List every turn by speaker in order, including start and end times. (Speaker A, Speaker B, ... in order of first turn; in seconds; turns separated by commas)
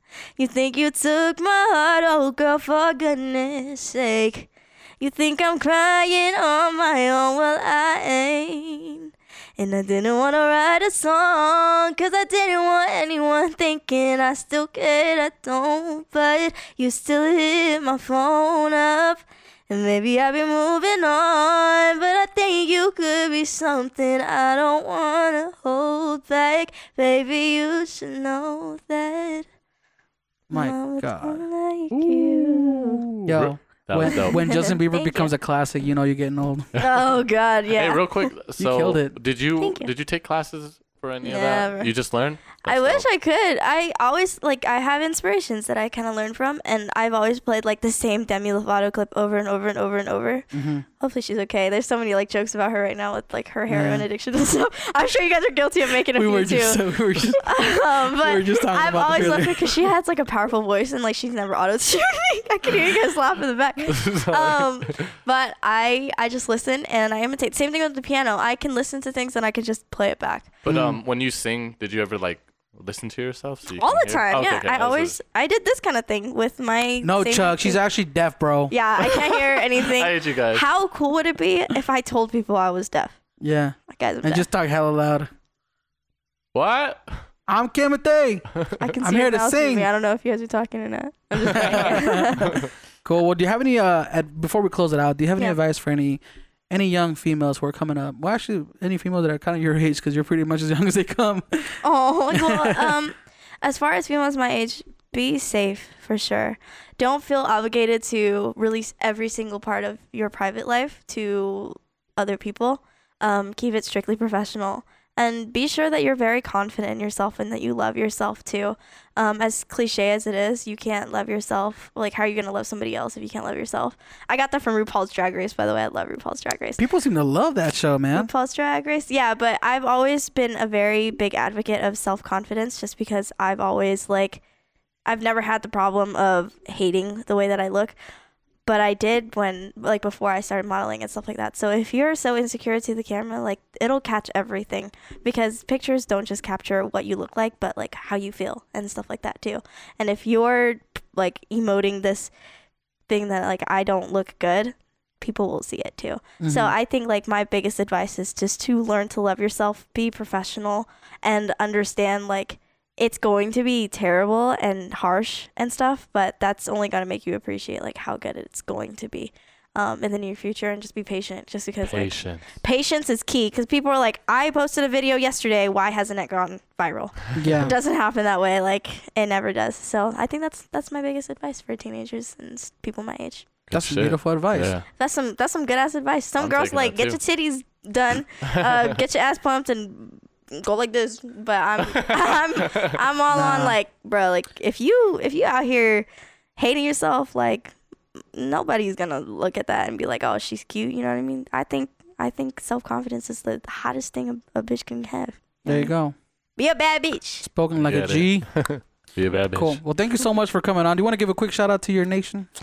Speaker A: 0.4-4.5, Speaker A: 5.0-29.5, Speaker B: 30.5-31.4, Speaker A: 30.5-33.0, Speaker C: 31.9-34.4, Speaker B: 33.2-36.7, Speaker A: 34.0-35.3, Speaker C: 36.7-37.0, Speaker A: 36.8-38.3, Speaker C: 37.7-43.1, Speaker B: 38.6-39.1, Speaker A: 39.6-39.9, Speaker A: 41.2-41.9, Speaker A: 42.6-50.5, Speaker B: 50.5-50.9, Speaker A: 51.0-56.8, Speaker B: 53.7-54.1, Speaker B: 56.1-59.9, Speaker A: 57.4-70.5, Speaker C: 63.9-65.0, Speaker C: 70.7-75.2, Speaker B: 70.7-71.0, Speaker A: 73.7-77.8, Speaker B: 77.0-78.7, Speaker A: 78.7-83.2, Speaker C: 79.8-80.7, Speaker B: 83.4-85.3, Speaker A: 83.9-84.5, Speaker C: 86.5-87.2, Speaker B: 87.5-88.5, Speaker A: 88.8-92.6, Speaker B: 89.0-89.9, Speaker B: 91.5-103.0, Speaker A: 101.8-126.8, Speaker B: 126.8-128.3, Speaker A: 128.1-134.4, Speaker A: 135.1-137.9, Speaker A: 138.7-152.3, Speaker A: 153.1-183.4, Speaker B: 156.4-156.7, Speaker C: 171.8-172.6, Speaker B: 177.3-177.7, Speaker C: 177.4-177.7, Speaker C: 183.7-184.8, Speaker B: 183.7-184.7, Speaker A: 185.0-197.7, Speaker C: 186.4-187.2, Speaker C: 188.4-188.9, Speaker C: 192.0-193.0, Speaker B: 193.3-193.8, Speaker A: 198.3-205.9, Speaker B: 205.7-206.2, Speaker A: 206.6-207.5, Speaker B: 207.4-208.5, Speaker C: 207.8-209.8, Speaker B: 209.5-212.5